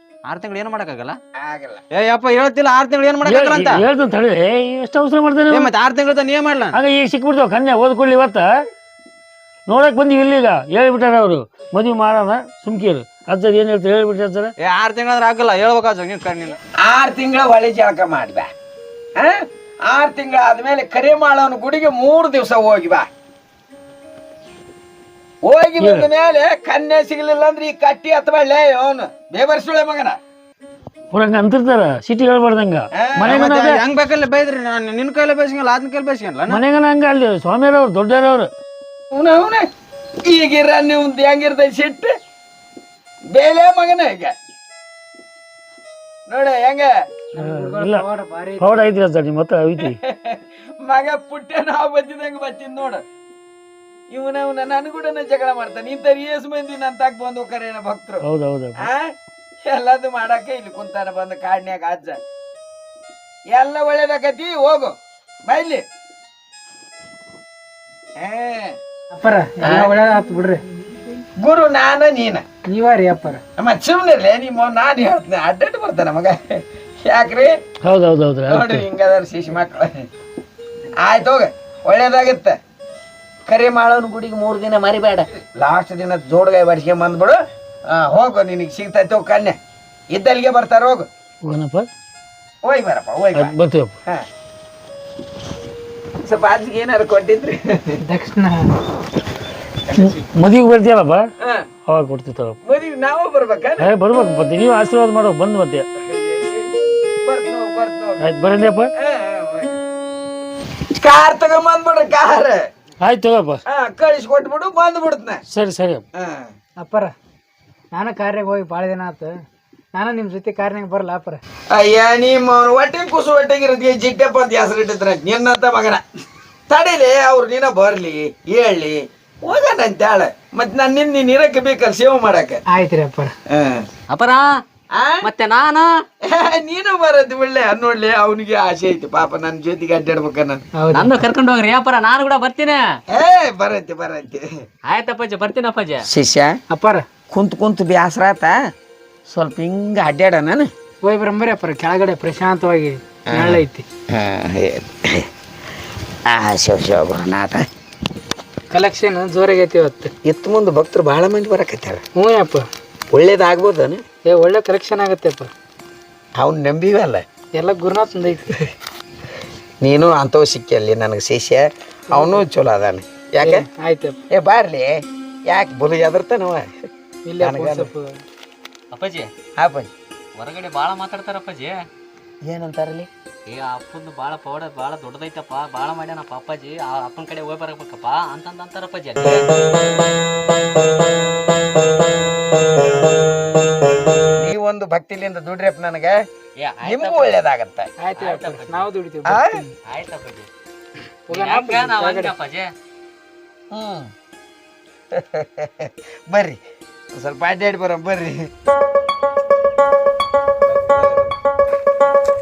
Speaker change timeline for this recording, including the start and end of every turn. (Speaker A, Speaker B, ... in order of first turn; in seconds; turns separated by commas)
Speaker A: 0.3-1.2, Speaker B: 1.4-1.8, Speaker A: 1.9-3.8, Speaker C: 3.2-5.7, Speaker A: 5.5-6.8, Speaker C: 6.7-8.5, Speaker C: 9.7-14.5, Speaker A: 14.6-16.6, Speaker B: 16.8-18.5, Speaker B: 19.2-23.1, Speaker B: 25.4-30.2, Speaker C: 25.8-26.1, Speaker C: 31.1-33.8, Speaker B: 32.9-33.4, Speaker A: 33.2-36.6, Speaker C: 36.5-38.5, Speaker B: 39.1-39.7, Speaker B: 40.2-42.1, Speaker B: 43.3-44.3, Speaker B: 46.3-46.9, Speaker D: 47.3-48.9, Speaker C: 47.4-48.0, Speaker C: 48.6-50.0, Speaker B: 49.8-53.0, Speaker B: 54.1-58.2, Speaker C: 58.2-58.9, Speaker B: 58.8-59.1, Speaker B: 59.6-62.2, Speaker B: 63.5-64.9, Speaker B: 65.5-65.8, Speaker B: 68.2-68.8, Speaker D: 69.1-70.6, Speaker B: 69.6-69.9, Speaker B: 71.4-72.4, Speaker D: 72.7-73.4, Speaker B: 73.6-77.5, Speaker C: 77.8-78.8, Speaker B: 78.5-80.0, Speaker B: 81.0-82.6, Speaker B: 83.5-89.6, Speaker B: 90.1-91.1, Speaker C: 91.5-91.9, Speaker B: 92.6-93.5, Speaker C: 93.3-93.9, Speaker B: 96.2-98.0, Speaker D: 98.0-98.7, Speaker B: 99.9-100.2, Speaker C: 100.0-101.3, Speaker C: 101.9-102.6, Speaker B: 102.6-103.9, Speaker C: 103.8-105.8, Speaker B: 106.0-108.3, Speaker C: 108.2-108.9, Speaker B: 109.0-109.8, Speaker B: 111.0-112.6, Speaker C: 113.0-113.6, Speaker B: 113.7-115.4, Speaker C: 115.5-116.0, Speaker B: 116.2-116.5, Speaker D: 116.8-117.1, Speaker D: 117.9-119.3, Speaker D: 120.0-121.4, Speaker B: 121.7-126.0, Speaker B: 126.7-132.6, Speaker D: 132.7-133.3, Speaker B: 133.5-133.8, Speaker E: 134.1-134.4, Speaker B: 134.9-135.2, Speaker E: 135.2-135.9, Speaker B: 136.2-140.6, Speaker D: 140.8-141.2, Speaker E: 140.9-142.8, Speaker B: 143.1-144.5, Speaker E: 144.9-146.0, Speaker B: 146.1-146.5, Speaker D: 146.7-147.0, Speaker B: 147.3-148.5, Speaker B: 149.3-150.7, Speaker D: 151.0-153.8, Speaker B: 153.3-155.3, Speaker B: 156.3-157.7, Speaker D: 158.7-160.1, Speaker B: 160.2-162.0, Speaker D: 162.2-162.7, Speaker B: 163.1-164.0, Speaker D: 164.3-165.5, Speaker B: 166.4-167.2, Speaker D: 167.6-168.6, Speaker B: 169.8-173.6, Speaker D: 172.1-172.4, Speaker D: 173.4-174.2, Speaker B: 174.3-174.9, Speaker B: 175.5-176.7, Speaker D: 177.3-178.1, Speaker B: 177.4-177.9, Speaker E: 178.9-179.3, Speaker B: 179.6-179.9, Speaker E: 180.4-181.7, Speaker B: 182.4-183.1, Speaker E: 183.5-189.6, Speaker B: 189.2-189.5, Speaker B: 194.4-196.2, Speaker E: 196.6-197.3, Speaker B: 196.8-197.9, Speaker D: 198.0-199.7, Speaker E: 198.2-198.9, Speaker B: 199.3-199.6, Speaker E: 199.9-200.5, Speaker D: 201.3-202.3, Speaker E: 201.3-202.7, Speaker B: 203.7-204.1, Speaker B: 205.1-206.6, Speaker B: 207.1-208.5